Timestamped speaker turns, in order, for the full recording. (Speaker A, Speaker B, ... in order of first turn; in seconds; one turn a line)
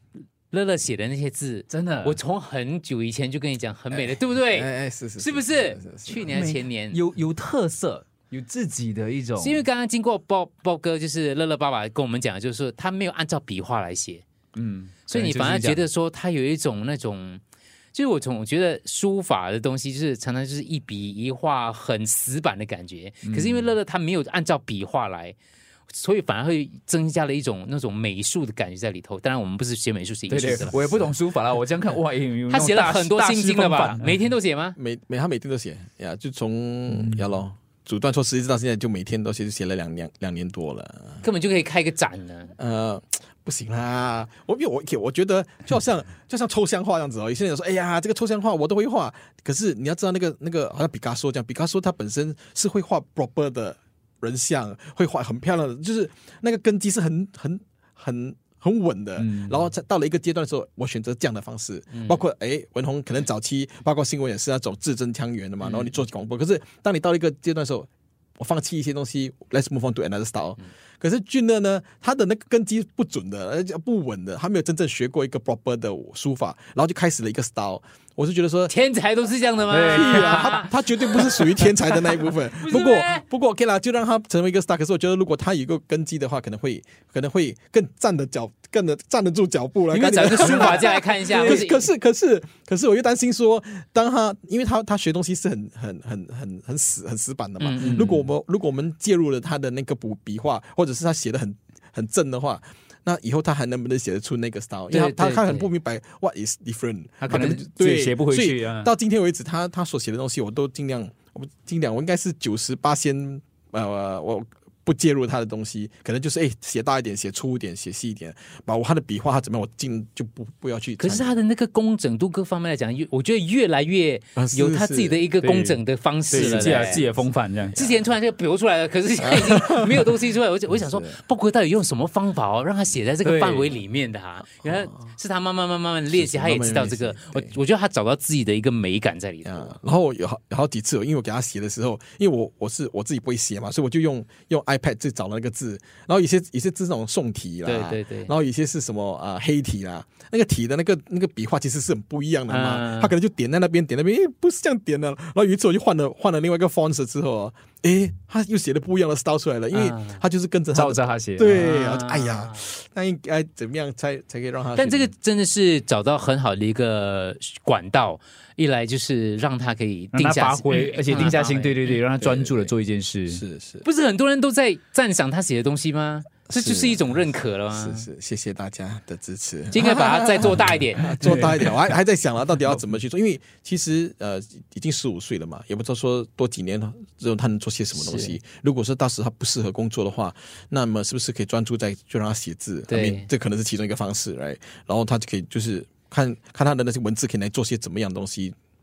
Speaker A: 0.5-7.0
Speaker B: 1.7-2.2
Speaker C: 3.9-6.3
Speaker B: 6.3-9.6
Speaker A: 9.4-14.2
Speaker B: 14.6-15.8
Speaker A: 15.1-17.4
Speaker A: 17.9-25.4
Speaker B: 23.2-23.7
Speaker A: 25.9-31.1
Speaker B: 30.3-34.2
Speaker A: 32.5-34.8
Speaker C: 34.8-41.2
Speaker B: 36.9-37.3
Speaker A: 41.2-42.5
Speaker C: 42.6-78.7
Speaker B: 59.2-59.7
Speaker A: 61.9-62.2
Speaker A: 65.6-65.9
Speaker A: 78.7-81.5
Speaker B: 79.7-80.6
Speaker C: 79.8-121.3
Speaker A: 82.6-83.2
Speaker A: 89.9-91.9
Speaker B: 90.2-91.7
Speaker A: 97.6-98.2
Speaker B: 97.8-98.1
Speaker A: 104.9-105.7
Speaker A: 107.2-107.6
Speaker B: 107.3-108.9
Speaker A: 121.0-127.1
Speaker C: 124.3-125.2
Speaker B: 125.4-127.8
Speaker C: 126.3-127.2
Speaker C: 127.7-128.1
Speaker A: 127.7-139.7
Speaker C: 129.2-131.2
Speaker B: 133.2-133.7
Speaker C: 134.6-135.0
Speaker C: 136.1-137.6
Speaker C: 139.4-165.1
Speaker A: 147.6-148.3
Speaker A: 152.5-153.1
Speaker A: 159.7-160.2
Speaker B: 160.7-161.6
Speaker A: 161.5-162.7
Speaker A: 164.8-172.0
Speaker B: 170.1-173.4
Speaker C: 172.2-172.7
Speaker C: 173.3-173.8
Speaker A: 173.8-178.1
Speaker C: 176.5-198.5
Speaker A: 179.7-181.1
Speaker B: 180.9-181.9
Speaker A: 187.9-188.3
Speaker A: 192.9-193.3